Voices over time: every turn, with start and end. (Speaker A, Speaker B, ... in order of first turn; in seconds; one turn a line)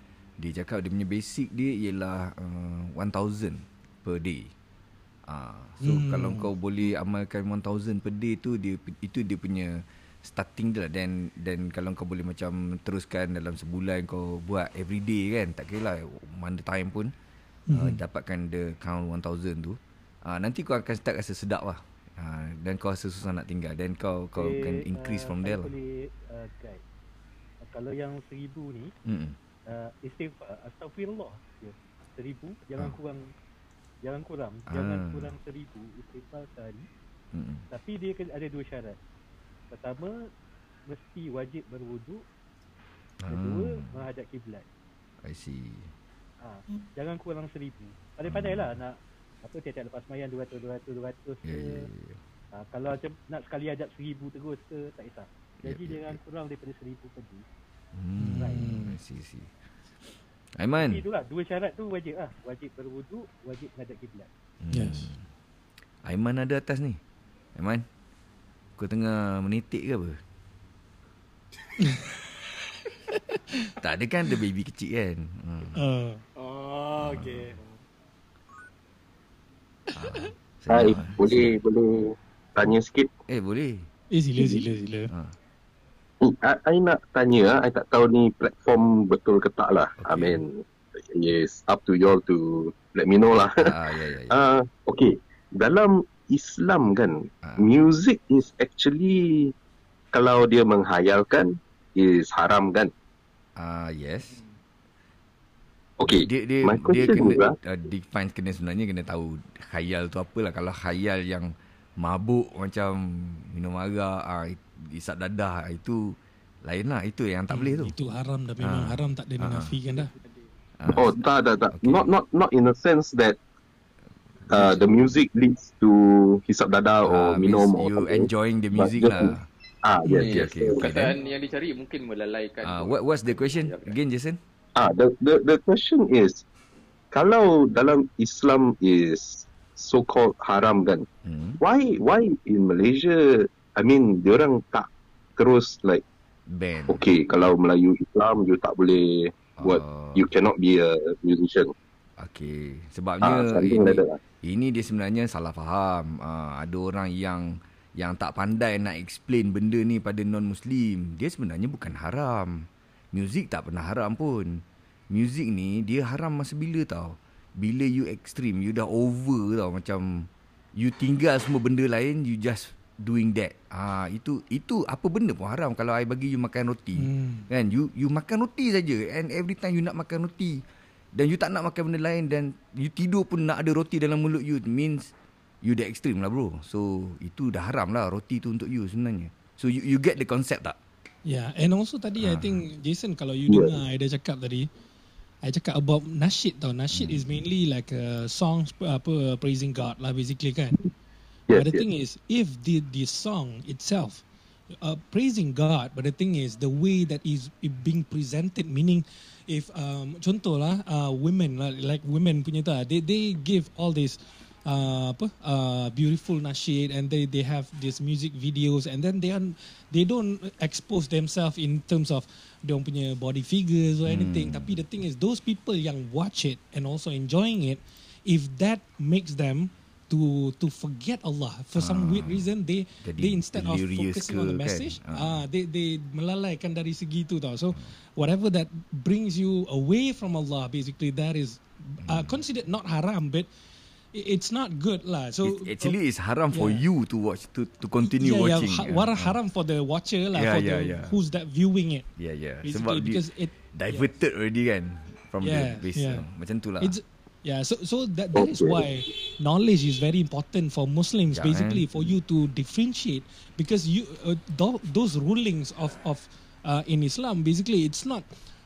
Speaker A: 0.4-4.5
Speaker A: 5.3-17.1
Speaker B: 5.8-6.5
Speaker B: 17.7-18.0
Speaker A: 17.7-25.7
Speaker C: 25.4-26.8
Speaker C: 27.7-28.9
Speaker A: 29.1-29.4
Speaker C: 29.8-33.2
Speaker C: 34.0-36.8
Speaker A: 34.7-35.4
Speaker A: 37.3-37.7
Speaker C: 37.7-38.9
Speaker C: 39.7-40.1
Speaker C: 40.9-42.2
Speaker A: 43.2-44.1
Speaker C: 43.4-44.6
Speaker A: 45.2-45.9
Speaker C: 46.4-48.9
Speaker A: 48.2-48.8
Speaker C: 49.4-51.6
Speaker A: 51.4-52.2
Speaker C: 52.7-57.4
Speaker A: 55.6-56.2
Speaker A: 57.9-59.5
Speaker B: 58.2-59.0
Speaker A: 60.6-61.0
Speaker C: 60.8-64.3
Speaker A: 64.6-65.3
Speaker B: 64.7-65.1
Speaker A: 66.0-67.0
Speaker A: 67.5-67.8
Speaker A: 68.8-70.2
Speaker B: 73.2-73.7
Speaker A: 73.8-75.8
Speaker B: 75.8-76.2
Speaker D: 76.4-77.8
Speaker A: 77.0-77.6
Speaker A: 79.9-81.6
Speaker E: 80.7-83.1
Speaker A: 83.3-83.9
Speaker B: 84.1-85.1
Speaker A: 85.1-85.3
Speaker E: 86.2-90.6
Speaker A: 90.0-90.4
Speaker E: 91.1-93.8
Speaker A: 93.6-94.4
Speaker E: 94.3-99.5
Speaker A: 97.4-97.8
Speaker E: 100.1-102.9
Speaker A: 103.5-104.4
Speaker E: 106.0-107.5
Speaker A: 106.0-117.9
Speaker B: 117.5-120.1
Speaker A: 118.6-119.8
Speaker D: 119.9-120.4
Speaker A: 120.8-122.1
Speaker E: 120.9-123.4
Speaker A: 124.4-125.1
Speaker E: 124.5-130.8
Speaker A: 127.0-129.4
Speaker A: 130.1-131.2
Speaker F: 130.2-133.9
Speaker A: 132.6-134.4
Speaker E: 134.8-136.4
Speaker E: 137.1-141.1
Speaker A: 141.2-141.6
Speaker E: 141.6-146.0
Speaker A: 146.5-147.1
Speaker E: 146.9-151.7
Speaker A: 149.6-150.3
Speaker A: 152.2-180.6
Speaker E: 153.2-154.2
Speaker B: 176.9-177.5
Speaker A: 181.1-190.8
Speaker B: 191.2-194.7
Speaker A: 192.2-192.6
Speaker E: 193.5-193.8
Speaker B: 195.4-200.8
Speaker A: 196.9-197.2
Speaker E: 201.5-201.8
Speaker B: 201.5-204.2
Speaker B: 204.8-243.5
Speaker A: 224.1-224.8
Speaker A: 231.7-232.5
Speaker A: 233.0-235.4
Speaker A: 242.0-242.4
Speaker B: 244.1-246.0
Speaker A: 245.4-249.4
Speaker B: 246.5-246.8
Speaker B: 248.0-252.0
Speaker A: 250.3-251.2
Speaker A: 252.2-257.0
Speaker B: 252.6-254.1
Speaker B: 255.4-256.2
Speaker B: 256.8-268.2
Speaker E: 258.3-258.9
Speaker A: 261.3-262.1